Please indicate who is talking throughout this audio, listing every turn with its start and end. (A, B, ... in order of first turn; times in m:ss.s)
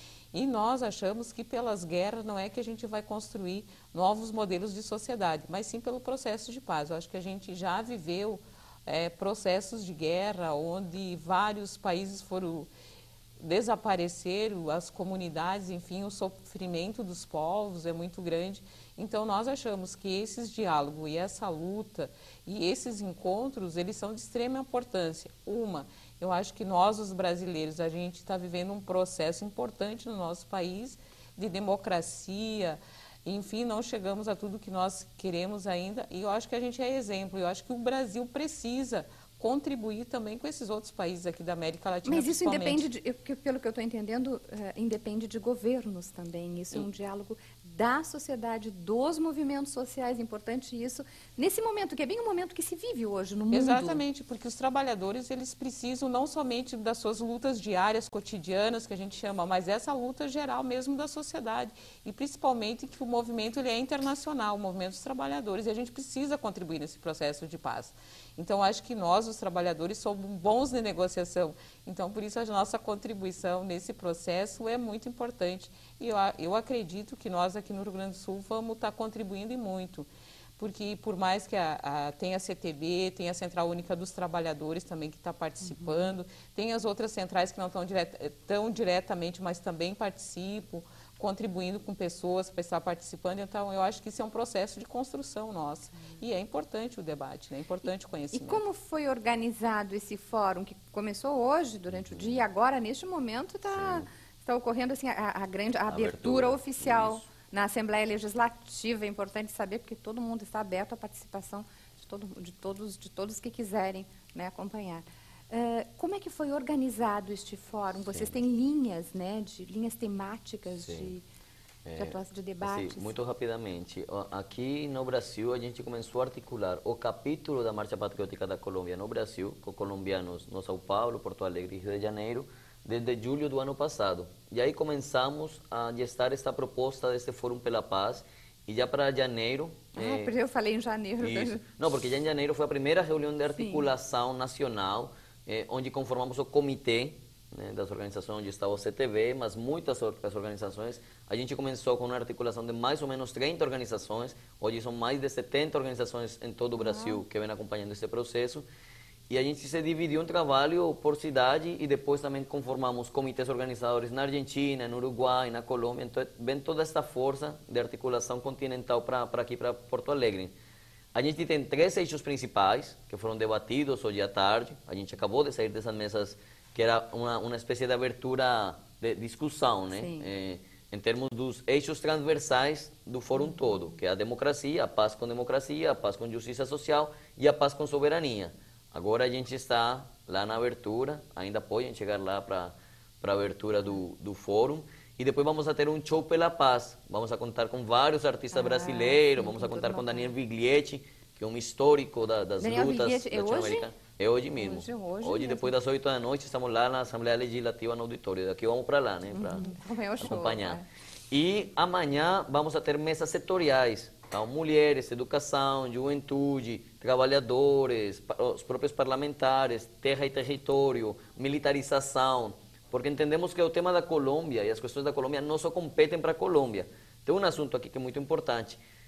0:00.3-0:12.7 A
0:13.4-0:42.9 A
0:42.0-0:54.0 B
0:53.5-1:20.1 A
1:20.6-1:38.6 A
1:25.6-1:26.1 B
1:38.3-2:01.2 B
1:41.9-1:42.4 C
1:43.7-1:44.1 C
1:45.9-1:47.3 C
2:00.8-2:01.1 C
2:01.8-2:20.3 C
2:02.0-2:03.1 B
2:20.0-2:21.6 B
2:21.2-2:38.7 C
2:23.6-2:23.9 B
2:36.8-2:37.2 B
2:39.3-2:50.5 C
2:51.1-3:48.8 C
2:59.9-3:00.3 B
3:18.5-3:20.3 B
3:22.6-3:23.9 B
3:24.6-3:25.7 B
3:29.3-3:30.9 B